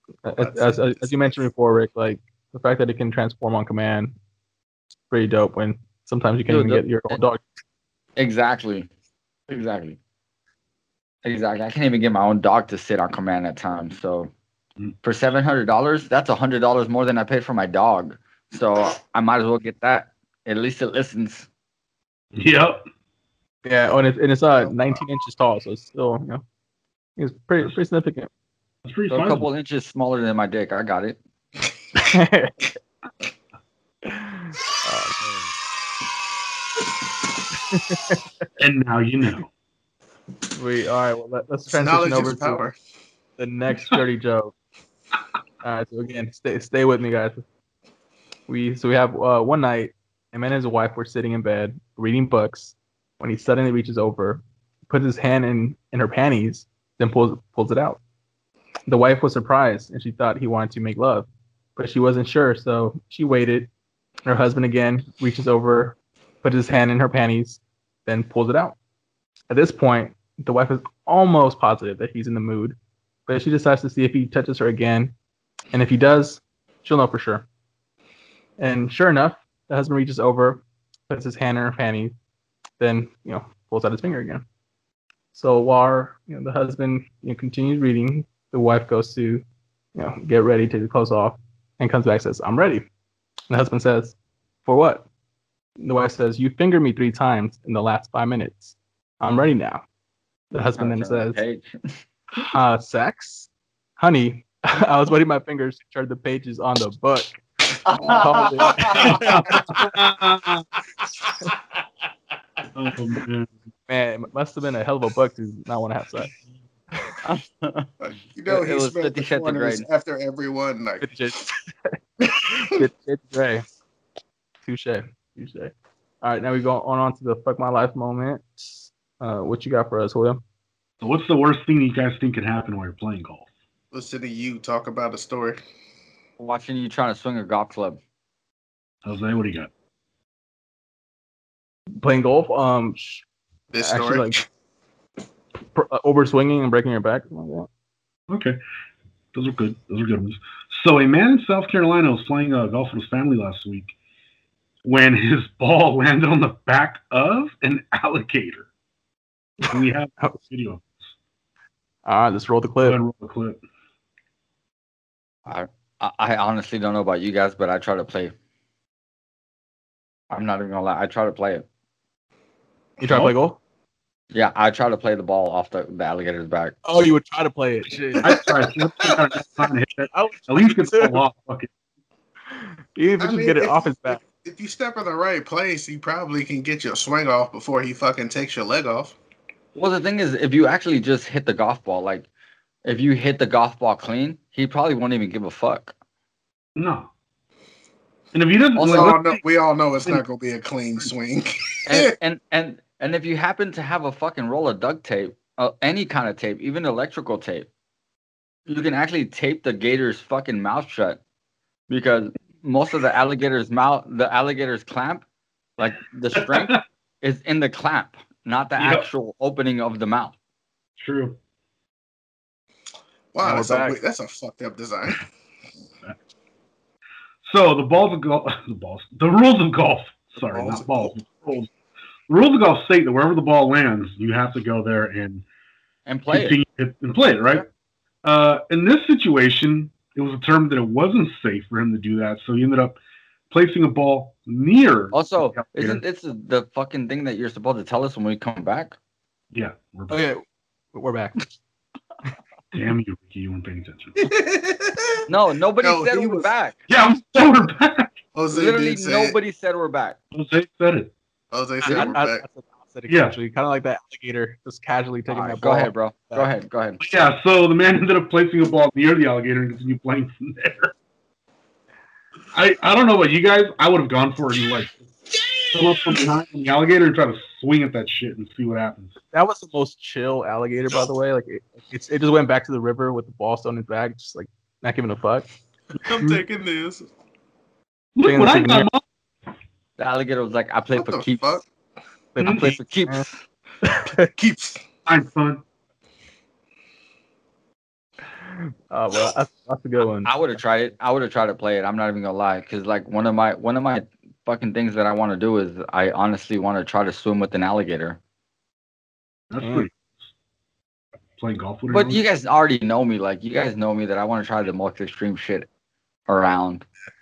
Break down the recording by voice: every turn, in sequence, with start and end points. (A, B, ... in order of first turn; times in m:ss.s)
0:00.2-0:04.1 A
0:00.3-0:01.4 B
0:05.1-0:07.4 A
0:06.5-0:07.2 C
0:08.2-0:08.9 C
0:09.5-0:10.0 C
0:11.2-0:14.3 C
0:15.0-0:21.5 C
0:22.3-0:22.8 D
0:23.6-0:26.4 A
0:24.5-0:25.0 B
0:27.2-0:28.3 A
0:28.8-0:29.5 D
0:29.1-0:31.2 C
0:32.0-0:32.7 A
0:34.1-0:35.5 A
0:37.7-0:38.2 A
0:38.6-0:39.5 D
0:40.5-0:42.6 A
0:41.7-0:42.8 B
0:43.4-0:44.5 A
0:45.6-0:47.4 A
0:48.5-0:58.0 A
0:58.9-1:03.7 A
1:04.2-1:08.7 A
1:09.5-1:15.1 A
1:15.7-1:17.4 A
1:18.6-1:22.1 A
1:22.8-1:24.4 A
1:25.3-1:29.4 A
1:30.0-1:32.9 A
1:33.5-1:35.0 A
1:35.8-1:39.8 A
1:40.5-1:41.4 A
1:40.8-1:42.4 C
1:42.5-1:47.3 A
1:47.8-1:49.2 C
1:48.0-1:49.3 A
1:48.6-1:49.2 B
1:49.0-1:50.6 D
1:52.7-1:53.5 D
1:53.9-1:56.4 A
1:57.2-1:57.9 C
1:58.0-2:01.1 B
1:58.5-1:59.8 C
2:01.0-2:02.0 A
2:02.2-2:02.9 B
2:02.6-2:03.6 A
2:04.6-2:10.4 A
2:11.0-2:13.5 D
2:13.9-2:15.6 B
2:16.4-2:18.0 C
2:19.0-2:19.7 D
2:22.0-2:23.2 A
2:23.7-2:24.4 B
2:23.8-2:24.4 A
2:25.7-2:27.7 A
2:28.3-2:28.6 D
2:29.3-2:33.9 D
2:34.8-2:38.7 D
2:39.7-2:41.1 D
2:42.0-2:43.0 A
2:42.8-2:43.6 D
2:45.5-2:48.3 C
2:50.3-2:51.6 C
2:53.0-2:53.6 A
2:53.1-2:53.3 D
2:54.3-2:56.8 C
2:56.8-2:58.3 A
2:58.2-3:01.7 D
2:58.3-2:58.5 B
3:00.1-3:01.2 A
3:02.5-3:04.2 A
3:03.2-3:09.2 B
3:09.7-3:12.3 C
3:12.8-3:15.9 C
3:16.8-3:17.1 D
3:18.3-3:19.2 D
3:18.7-3:19.2 C
3:18.9-3:22.1 B
3:21.8-3:27.7 C
3:28.7-3:31.2 C
3:31.9-3:35.2 C
3:35.8-3:40.3 C
3:36.4-3:36.8 D
3:38.8-3:39.1 D
3:41.0-3:41.4 D
3:43.3-3:45.2 B
3:43.4-3:44.0 A
3:47.4-3:51.7 D
3:50.5-3:51.1 B
3:52.3-3:55.4 D
3:56.0-3:56.6 C
3:56.3-3:57.6 D
3:58.2-4:03.0 D
4:03.5-4:06.0 D
4:05.1-4:09.0 C
4:09.5-4:10.2 D
4:10.1-4:11.5 A
4:12.7-4:14.2 D
4:14.2-4:15.2 B
4:15.3-4:16.8 C
4:15.8-4:16.5 B
4:16.9-4:18.1 D
4:18.3-4:19.4 B
4:18.5-4:20.2 C
4:20.3-4:21.1 D
4:21.5-4:22.4 B
4:21.8-4:26.5 A
4:21.8-4:22.1 C
4:23.1-4:23.3 D
4:25.3-4:27.0 C
4:27.0-4:30.9 D
4:32.5-4:35.0 D
4:35.7-4:39.2 D
4:39.3-4:45.5 A
4:46.0-4:47.1 B
4:48.2-4:49.0 D
4:48.2-4:48.9 A
4:50.0-4:51.6 C
4:50.9-4:51.6 B
4:52.3-4:53.2 A
4:52.4-4:53.3 C
4:53.8-4:54.3 A
4:54.1-4:54.8 B
4:55.0-4:55.6 D
4:58.6-5:00.3 A
5:00.2-5:08.2 C
5:09.5-5:10.3 D
5:09.6-5:09.9 A
5:11.4-5:12.2 D
5:11.9-5:15.7 C
5:16.3-5:16.8 C